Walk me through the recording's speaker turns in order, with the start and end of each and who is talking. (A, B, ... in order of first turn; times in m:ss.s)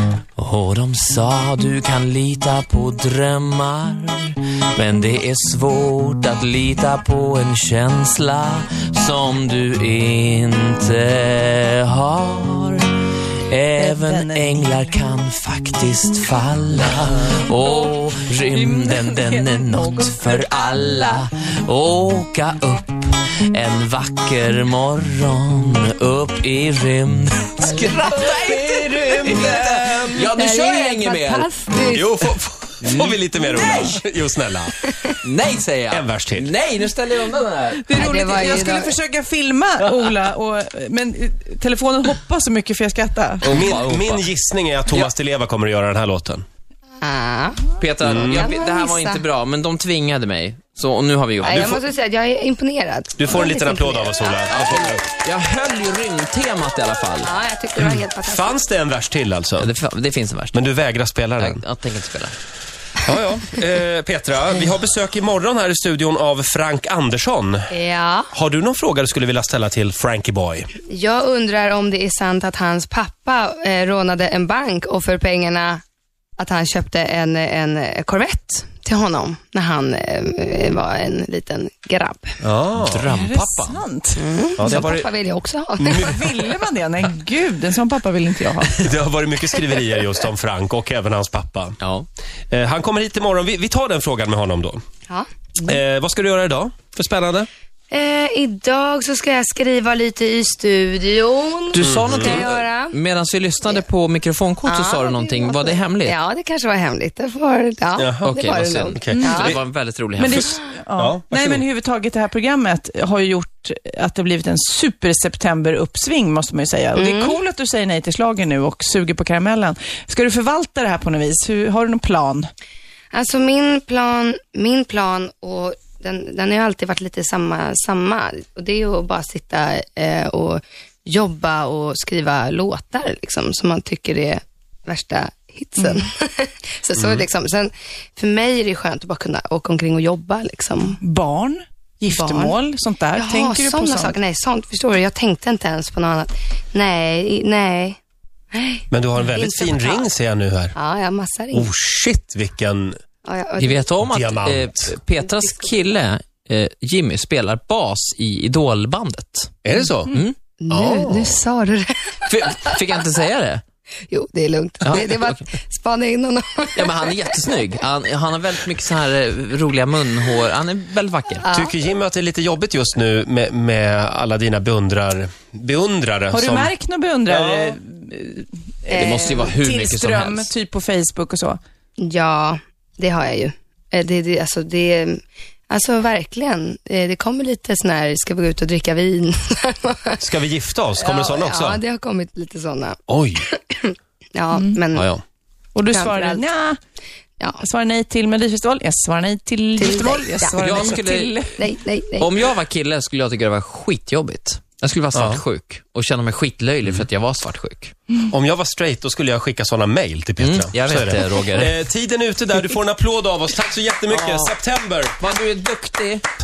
0:00.4-0:12.9 A
0:13.5-0:34.0 A
0:13.8-0:15.0 B
0:18.5-0:21.2 B
0:27.9-0:28.6 B
0:30.3-0:32.1 C
0:31.8-0:34.8 D
0:34.9-0:35.1 C
0:35.2-0:37.9 A
0:35.9-0:36.5 D
0:37.8-0:43.5 B
0:37.9-0:39.0 C
0:43.4-0:44.3 A
0:43.5-0:46.4 D
0:47.0-0:49.2 C
0:47.8-0:51.8 A
0:48.0-0:48.5 D
0:51.4-0:54.6 C
0:51.5-0:51.8 D
0:53.2-0:55.0 D
0:54.5-0:57.3 A
0:57.2-0:58.6 C
0:57.8-0:59.7 D
0:59.6-1:00.6 A
1:00.5-1:01.6 D
1:01.4-1:02.4 A
1:03.0-1:07.7 D
1:07.7-1:08.3 C
1:08.3-1:10.7 D
1:10.9-1:15.8 C
1:16.4-1:22.4 C
1:22.4-1:23.1 D
1:22.7-1:23.8 A
1:23.0-1:24.2 B
1:24.2-1:26.2 C
1:24.6-1:25.1 D
1:25.8-1:26.3 D
1:26.0-1:28.8 B
1:28.8-1:31.8 D
1:31.8-1:32.1 A
1:32.5-1:34.8 D
1:35.6-1:37.5 D
1:37.9-1:43.0 C
1:41.7-1:46.2 A
1:41.8-1:42.5 D
1:44.7-1:49.6 C
1:48.0-1:48.3 D
1:48.2-1:50.6 A
1:48.9-1:49.6 D
1:49.1-1:49.5 B
1:50.2-2:02.5 B
1:51.0-1:51.6 D
1:57.0-1:57.4 C
2:03.1-2:21.0 C
2:17.0-2:17.2 D
2:21.0-2:24.2 B
2:22.1-2:22.5 C
2:23.1-2:28.0 C
2:28.5-2:30.1 C
2:28.9-2:30.8 D
2:30.7-2:31.7 C
2:31.5-2:33.0 D
2:33.2-2:33.8 C
2:33.6-2:39.6 A
2:34.0-2:35.0 D
2:39.6-2:40.2 D
2:40.1-2:40.4 A
2:40.6-2:42.8 C
2:40.7-2:41.4 D
2:42.3-2:43.6 A
2:44.1-2:47.4 C
2:44.8-2:45.4 A
2:46.8-2:51.4 A
2:51.4-2:51.7 C
2:51.5-2:56.7 D
2:56.3-3:01.6 B
2:57.3-2:57.7 D
2:58.9-2:59.6 C
2:58.9-3:00.5 A
3:02.0-3:10.2 C
3:10.2-3:11.8 D
3:11.0-3:15.1 C
3:13.1-3:13.4 D
3:14.9-3:15.2 A
3:15.8-3:16.8 B
3:15.9-3:16.4 C
3:17.6-3:21.5 B
3:19.8-3:20.9 C
3:20.6-3:21.5 A
3:21.6-3:22.4 C
3:22.2-3:27.9 A
3:25.1-3:25.4 D
3:28.3-3:35.2 D
3:30.4-3:31.7 A
3:34.1-3:34.6 A
3:35.2-3:36.2 A